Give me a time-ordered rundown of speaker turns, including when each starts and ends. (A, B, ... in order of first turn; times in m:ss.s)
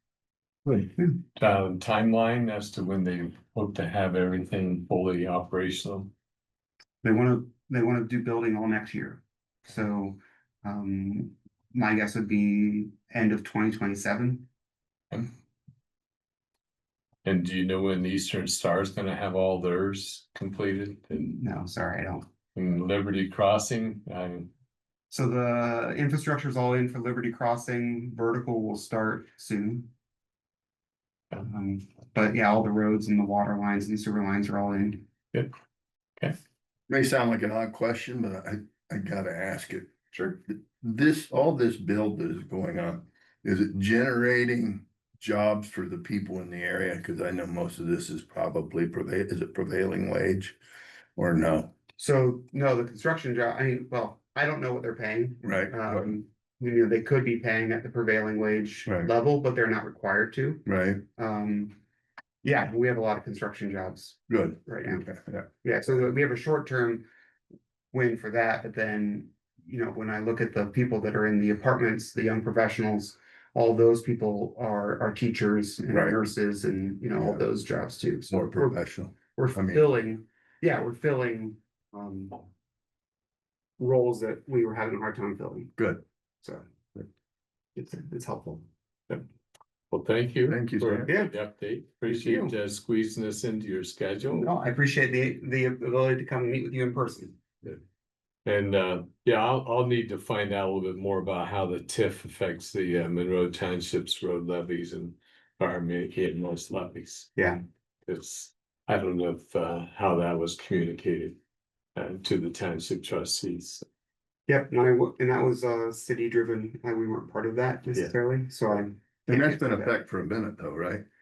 0:00.6-0:00.9 A
0:01.4-0:06.1 B
0:07.0-0:14.5 C
0:17.2-0:21.4 B
0:21.4-0:22.2 C
0:22.6-0:24.5 B
0:25.1-0:29.9 C
0:31.4-0:35.0 C
0:36.9-0:50.6 A
0:51.2-0:51.7 A
0:52.0-1:00.6 C
0:55.4-0:56.1 A
1:00.6-1:01.0 A
1:01.2-1:01.8 C
1:02.4-1:05.0 C
1:04.3-1:05.4 A
1:05.6-1:07.0 C
1:07.9-1:18.8 C
1:15.9-1:16.2 A
1:18.3-1:19.9 A
1:19.3-1:22.5 C
1:23.8-1:25.7 C
1:25.8-1:26.0 A
1:26.4-1:27.0 C
1:27.7-1:29.2 C
1:29.9-1:34.5 B
1:30.5-1:31.1 A
1:31.1-1:31.4 C
1:32.0-1:32.6 C
1:34.3-1:37.7 C
1:38.4-1:47.4 B
1:48.0-1:51.4 B
1:52.0-1:53.8 B
1:54.5-2:00.0 C
1:59.3-2:01.0 A